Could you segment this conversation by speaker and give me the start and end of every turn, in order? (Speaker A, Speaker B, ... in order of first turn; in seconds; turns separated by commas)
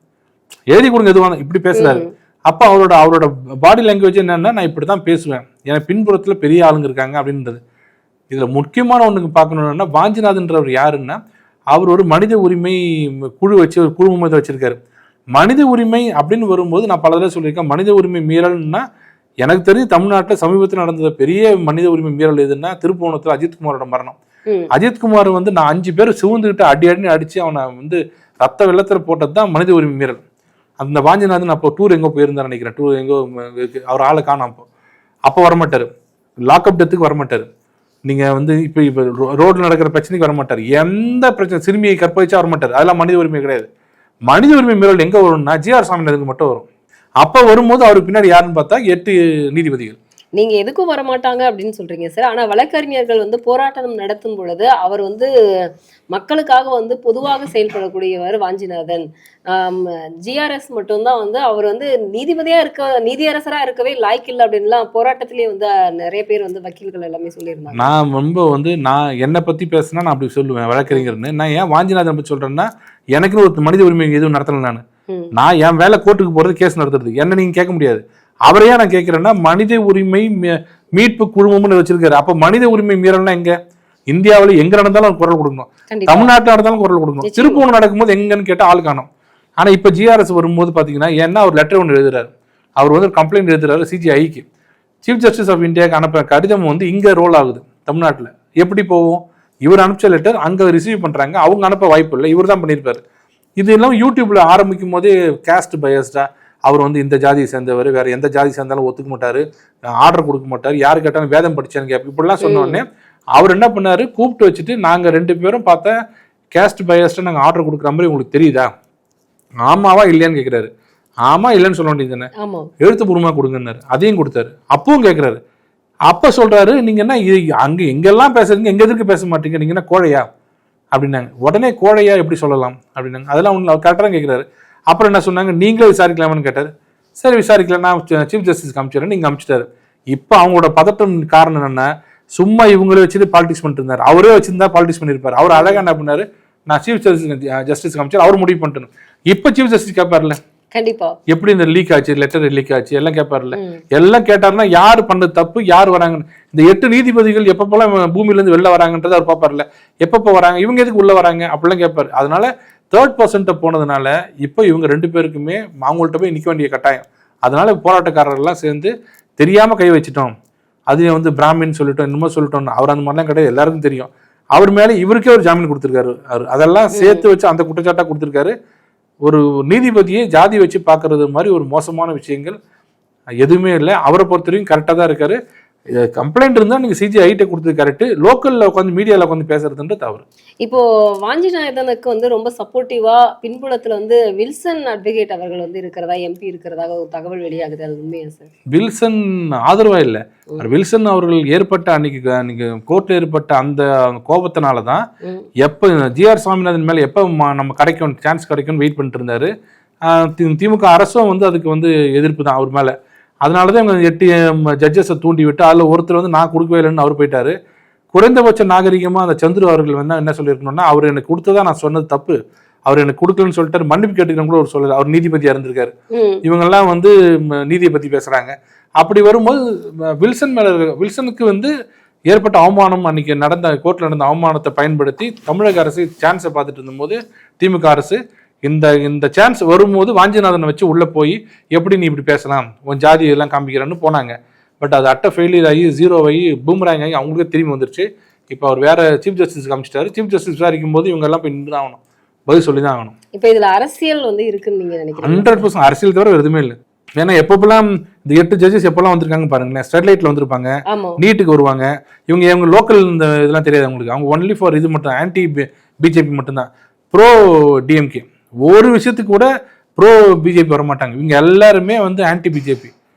Speaker A: 0.7-7.6, Speaker B: 1.7-2.1, Speaker A: 8.3-11.2, Speaker A: 11.7-14.8, Speaker A: 15.3-18.9, Speaker A: 19.4-24.2, Speaker A: 24.7-30.2, Speaker A: 30.8-34.7, Speaker A: 35.3-35.9, Speaker A: 36.5-37.5, Speaker A: 38.1-43.7, Speaker A: 44.3-46.6, Speaker A: 47.2-50.0, Speaker B: 50.4-55.3, Speaker B: 56.1-67.9, Speaker A: 67.7-74.8, Speaker A: 75.3-83.5, Speaker A: 84.1-89.1, Speaker B: 85.9-86.3, Speaker B: 87.2-87.6, Speaker A: 89.6-94.5, Speaker A: 95.0-103.0, Speaker A: 103.6-115.9, Speaker B: 112.4-112.8, Speaker A: 116.5-118.7, Speaker A: 119.7-120.7, Speaker A: 121.3-125.4, Speaker B: 122.4-122.7, Speaker A: 126.1-130.2, Speaker A: 130.9-150.4, Speaker B: 145.5-145.8, Speaker B: 150.8-151.2, Speaker A: 151.3-170.3, Speaker B: 153.5-153.8, Speaker A: 170.9-178.5, Speaker B: 176.9-177.2, Speaker A: 179.2-182.6, Speaker A: 183.4-185.4, Speaker A: 185.9-190.2, Speaker B: 190.6-198.5, Speaker A: 198.7-205.0, Speaker A: 205.6-209.5, Speaker A: 210.1-212.9, Speaker A: 213.4-217.6, Speaker A: 218.1-225.9, Speaker B: 226.1-226.4, Speaker A: 226.4-231.7, Speaker A: 232.3-253.2, Speaker B: 253.4-255.7, Speaker A: 255.2-272.9, Speaker B: 260.9-261.2